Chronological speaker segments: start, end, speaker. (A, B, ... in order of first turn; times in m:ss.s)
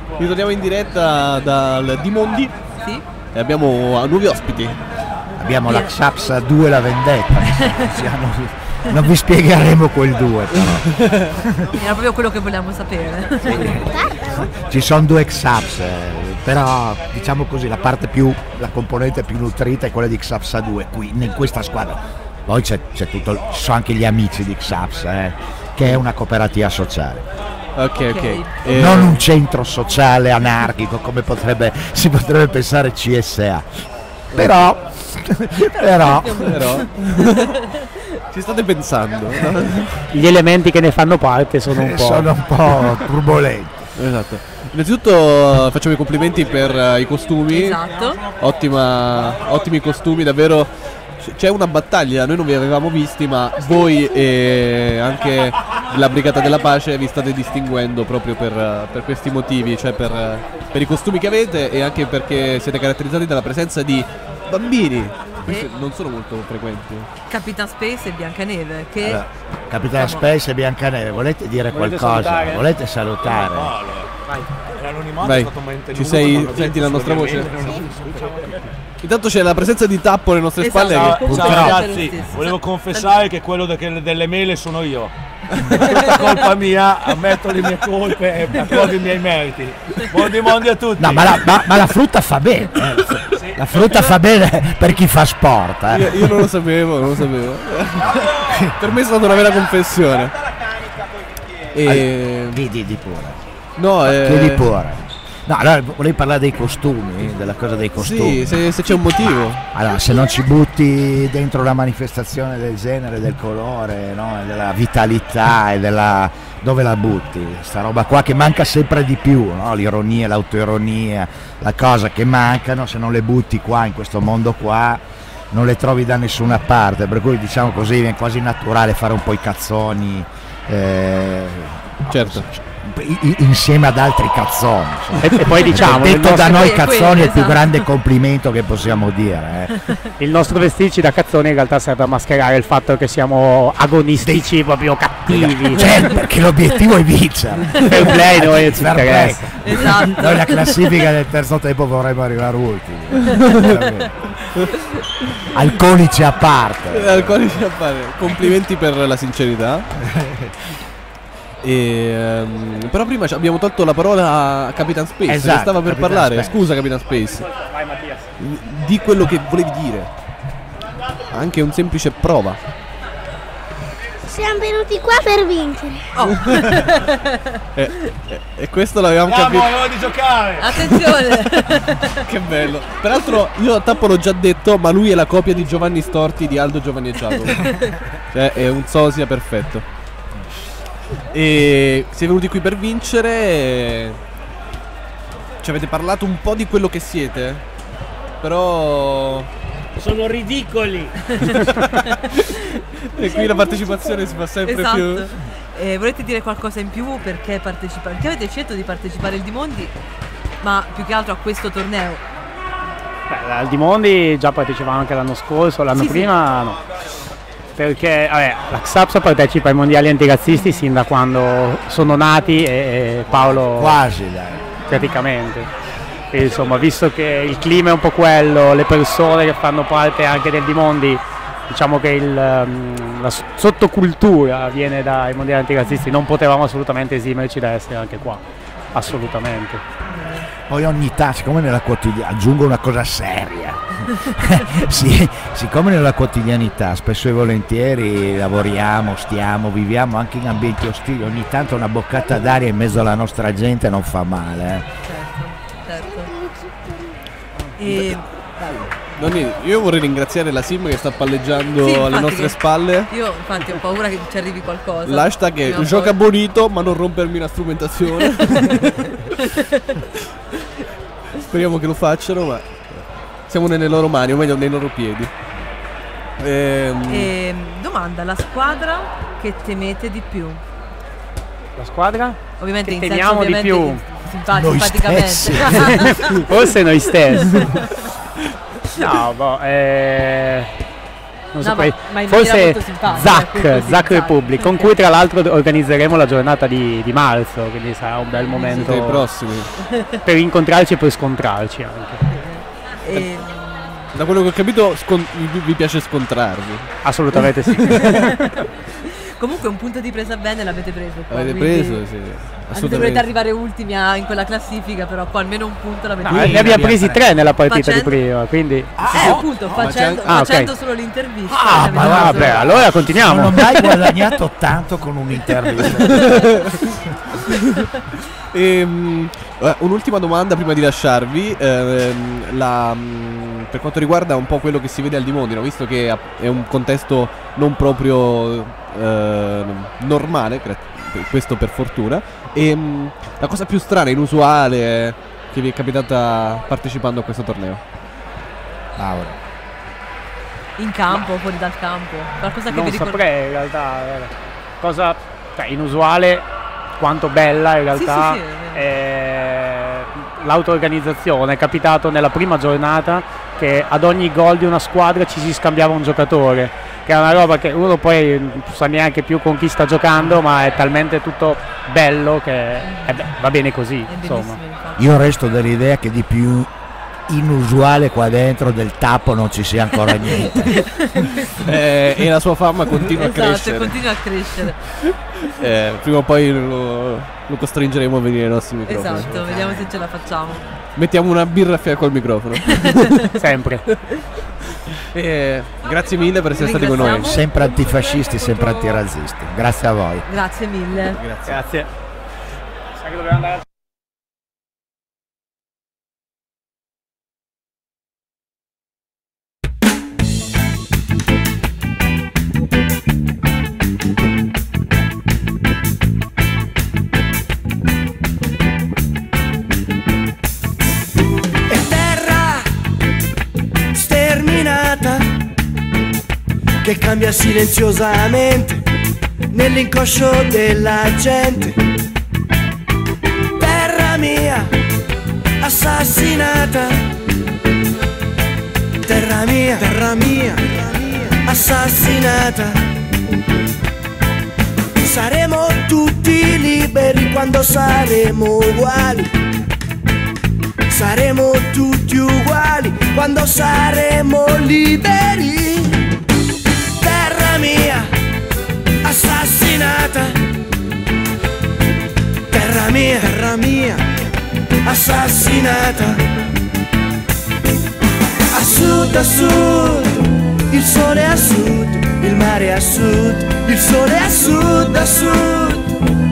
0:00.2-0:02.5 A
0:02.8-0:03.0 B
0:03.3-0:04.8 A
0:05.4-0:11.7 C
0:05.6-0:06.0 B
0:07.6-0:07.9 B
0:10.6-0:11.4 A
0:11.8-0:13.7 B
0:13.4-0:27.2 C
0:13.9-0:14.3 D
0:27.8-0:29.3 A
0:28.0-0:28.6 B
0:28.6-0:33.7 C
0:34.3-0:36.8 C
0:36.2-0:40.0 A
0:40.1-0:42.3 E
0:41.7-0:43.9 C
0:44.0-1:07.1 A
0:47.5-0:48.2 B
1:07.3-1:09.2 B
1:09.0-1:13.8 C
1:09.9-1:10.3 B
1:11.7-1:12.6 E
1:13.2-1:18.7 F
1:15.2-1:17.7 A
1:19.0-1:21.3 A
1:20.6-1:23.2 B
1:20.9-1:31.8 F
1:21.3-1:21.8 C
1:26.1-1:26.4 B
1:31.0-1:36.4 C
1:33.3-1:34.0 F
1:35.9-1:40.3 A
1:38.4-1:38.7 C
1:41.7-1:42.6 A
1:41.8-1:43.4 C
1:43.8-1:44.7 A
1:44.0-2:19.9 C
1:47.9-1:49.6 A
2:12.1-2:12.4 A
2:15.2-2:16.6 E
2:16.6-2:17.9 B
2:20.2-2:25.9 E
2:24.2-2:24.6 C
2:25.3-2:34.4 C
2:27.9-2:29.5 E
2:29.6-2:31.0 B
2:33.4-2:33.7 A
2:35.5-2:37.6 C
2:36.9-2:39.9 A
2:40.0-2:40.8 C
2:41.6-2:47.6 A
2:45.3-2:46.7 C
2:47.5-2:48.2 E
2:48.4-2:50.1 A
2:51.3-2:52.6 A
2:54.3-2:56.1 D
2:56.1-2:57.3 B
2:56.4-2:56.8 A
2:57.8-2:59.9 A
2:59.2-3:00.8 F
3:00.6-3:02.2 B
3:00.9-3:01.6 A
3:02.2-3:07.7 A
3:08.3-3:09.8 A
3:11.3-3:14.2 A
3:15.6-3:17.6 A
3:18.4-3:19.5 A
3:20.0-3:21.2 F
3:21.3-3:21.6 B
3:21.4-3:25.4 A
3:23.3-3:29.9 B
3:30.6-3:32.2 B
3:33.3-3:36.8 E
3:35.9-3:36.3 B
3:37.8-3:44.0 E
3:43.3-3:44.8 C
3:44.9-3:45.7 E
3:46.3-3:51.2 E
3:51.7-3:58.4 E
3:58.9-3:59.8 E
4:00.0-4:00.5 B
4:00.7-4:14.8 C
4:15.0-4:16.3 B
4:17.8-4:18.9 B
4:17.9-4:18.2 A
4:18.9-4:23.1 A
4:21.8-4:26.2 B
4:25.0-4:29.5 A
4:29.4-4:29.8 B
4:31.4-4:35.3 A
4:36.4-4:37.3 A
4:37.1-4:40.6 B
4:41.8-4:44.0 E
4:42.6-4:46.3 B
4:44.5-4:46.1 C
4:45.9-4:47.7 E
4:47.3-4:47.9 B
4:49.0-4:50.7 E
4:51.6-4:59.3 E
4:51.6-4:54.9 B
4:58.3-4:59.0 B
4:58.6-4:59.7 A
4:59.8-5:00.2 B
5:00.2-5:02.2 E
5:02.3-5:04.1 B
5:03.1-5:03.4 A
5:04.1-5:08.3 A
5:07.0-5:08.4 E
5:07.9-5:12.0 B
5:11.3-5:13.3 A
5:12.7-5:17.0 B
5:16.2-5:18.9 E
5:16.7-5:17.2 C
5:17.6-5:18.2 B
5:19.0-5:22.9 B
5:19.0-5:20.4 A
5:20.2-5:20.7 E
5:21.5-5:27.1 C
5:21.9-5:23.6 E
5:26.0-5:26.7 A
5:27.4-5:47.8 A
5:49.0-5:49.4 C
5:50.8-5:53.2 B
5:52.7-5:54.3 E
5:54.8-5:56.4 E
5:57.0-6:14.6 E
5:57.9-5:58.8 B
6:12.8-6:13.3 B
6:14.0-6:15.3 B
6:15.0-6:16.7 C
6:17.3-6:20.9 C
6:20.3-6:21.5 B
6:21.5-6:29.8 A
6:23.2-6:24.8 B
6:28.9-6:30.7 B
6:31.0-6:34.2 A
6:32.7-6:33.2 B
6:33.4-6:33.8 E
6:35.1-6:37.3 A
6:36.6-6:39.0 B
6:37.2-6:40.2 C
6:40.2-6:41.2 B
6:41.0-6:41.6 A
6:41.4-6:41.9 E
6:43.0-6:43.5 E
7:01.7-7:02.7 G
7:03.9-7:05.3 G
7:06.8-7:08.8 G
7:09.5-7:11.8 G
7:13.6-7:14.7 G
7:15.6-7:17.1 G
7:19.0-7:22.8 G
7:25.0-7:29.3 G
7:30.9-7:36.2 G
7:37.0-7:38.1 G
7:39.0-7:40.4 G
7:42.5-7:44.1 G
7:44.8-7:46.2 G
7:48.5-7:56.0 G